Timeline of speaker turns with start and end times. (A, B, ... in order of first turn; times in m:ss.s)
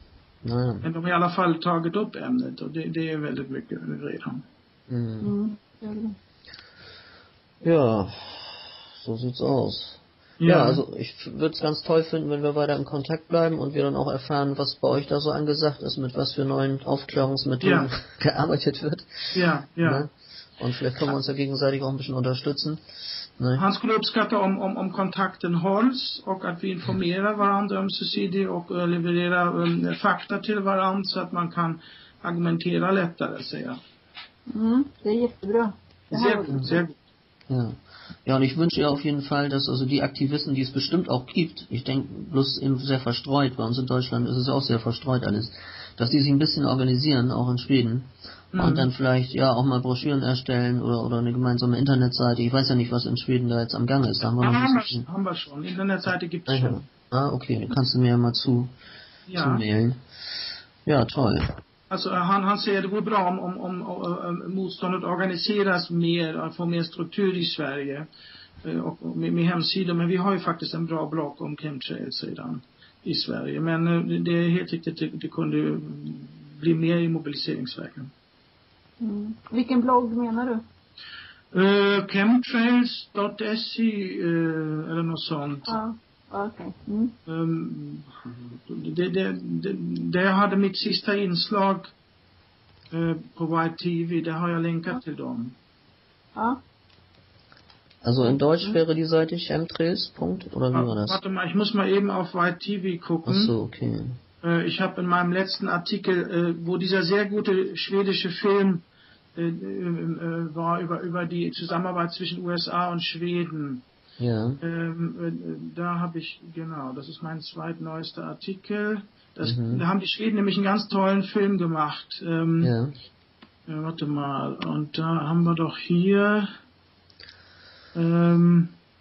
0:00.4-0:00.9 A
0:00.8-0:04.4 B
0:04.9-0:05.3 A
0:05.2-0:06.2 C
0:07.6-0:22.8 A
0:10.4-0:10.8 B
0:17.6-0:17.9 B
0:19.3-0:20.0 B
0:23.4-0:23.6 A
0:23.6-0:33.8 B
0:34.5-0:36.8 C
0:36.1-0:36.9 B
0:37.5-0:55.0 A
0:48.5-0:48.9 B
0:54.4-0:56.8 B
0:56.5-0:58.7 A
0:59.3-0:59.6 B
0:59.3-1:00.0 A
1:00.8-1:01.6 A
1:01.9-1:08.1 B
1:08.6-1:18.1 B
1:19.0-1:20.6 C
1:21.5-1:25.7 B
1:25.7-1:27.1 C
1:27.3-1:31.9 B
1:32.9-1:35.5 B
1:38.0-1:41.2 A
1:40.7-1:43.5 B
1:43.2-1:44.2 A
1:44.4-1:48.8 B
1:49.4-1:53.8 B
1:54.2-1:54.6 A
1:54.6-2:02.7 B
1:59.4-1:59.8 A
2:02.6-2:02.9 A
2:03.7-2:06.5 B
2:07.9-2:08.7 B